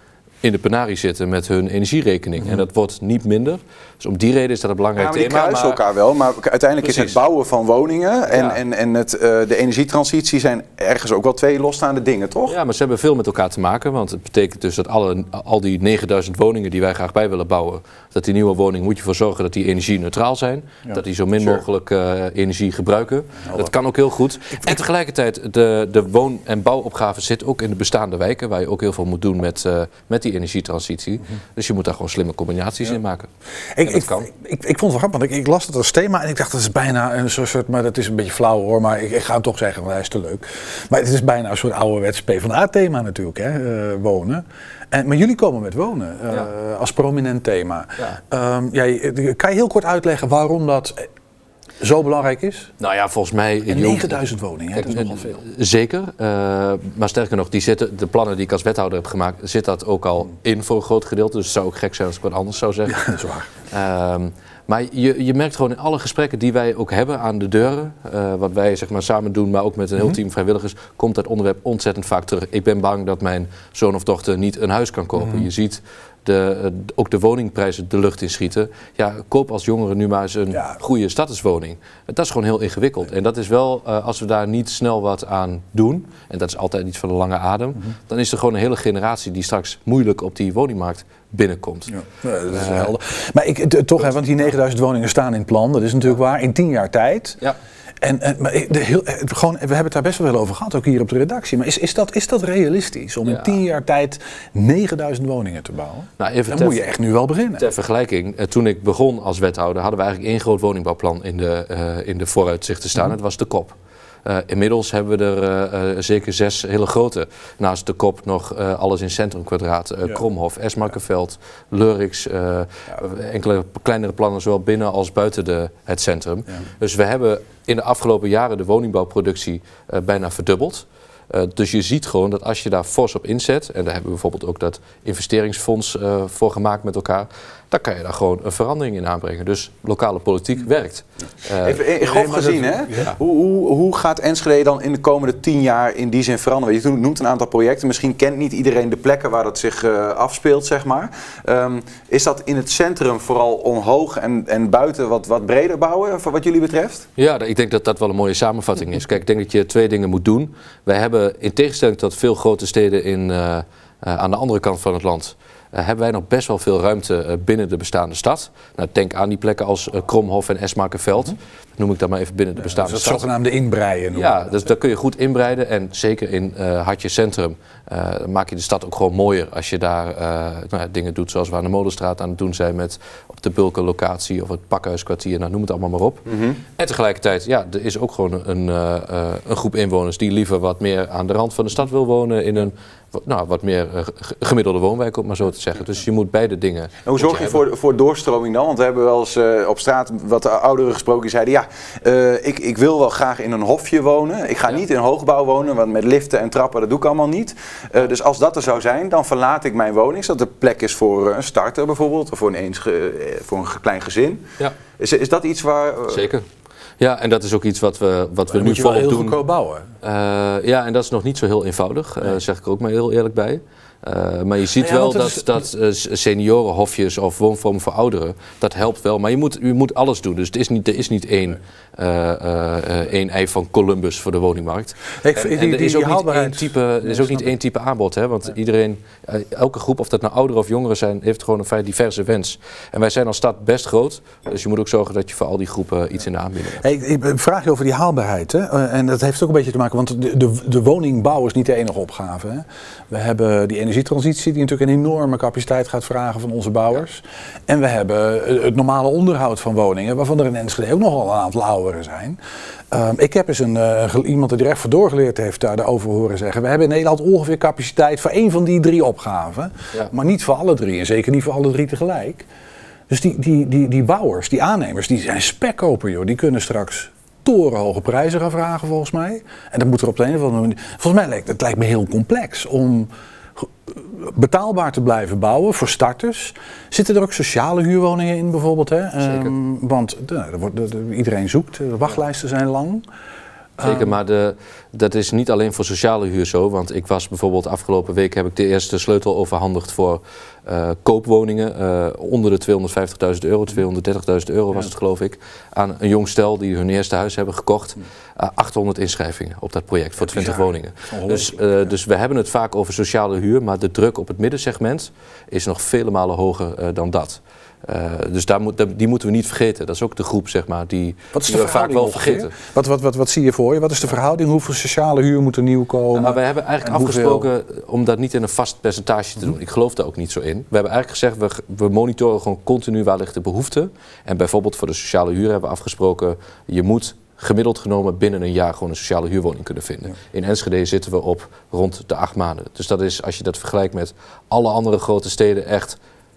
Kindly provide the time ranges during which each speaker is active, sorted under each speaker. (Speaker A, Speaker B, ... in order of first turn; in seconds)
Speaker A: 0.4-5.8, 6.8-7.2, 8.3-8.6, 12.5-33.3, 33.8-34.2, 52.8-63.0, 63.7-92.9, 103.2-103.5, 106.2-106.8, 107.6-141.8, 157.2-173.3, 174.1-186.2, 186.8-197.6, 216.1-216.4, 217.0-219.4, 220.0-246.8, 293.8-322.5, 326.1-346.0
Speaker B: 5.0-12.6, 141.6-157.1, 186.3-186.6, 197.0-216.3
Speaker C: 20.9-21.6, 23.4-23.7, 33.7-51.1, 51.8-52.7, 53.7-55.4, 62.9-63.5, 91.9-97.4, 98.0-107.7, 142.0-143.1, 172.6-174.5, 218.5-219.9, 224.8-225.5, 235.2-237.5, 246.8-262.4, 262.9-272.5, 273.1-293.0, 293.8-294.1, 310.2-311.9, 321.3-327.5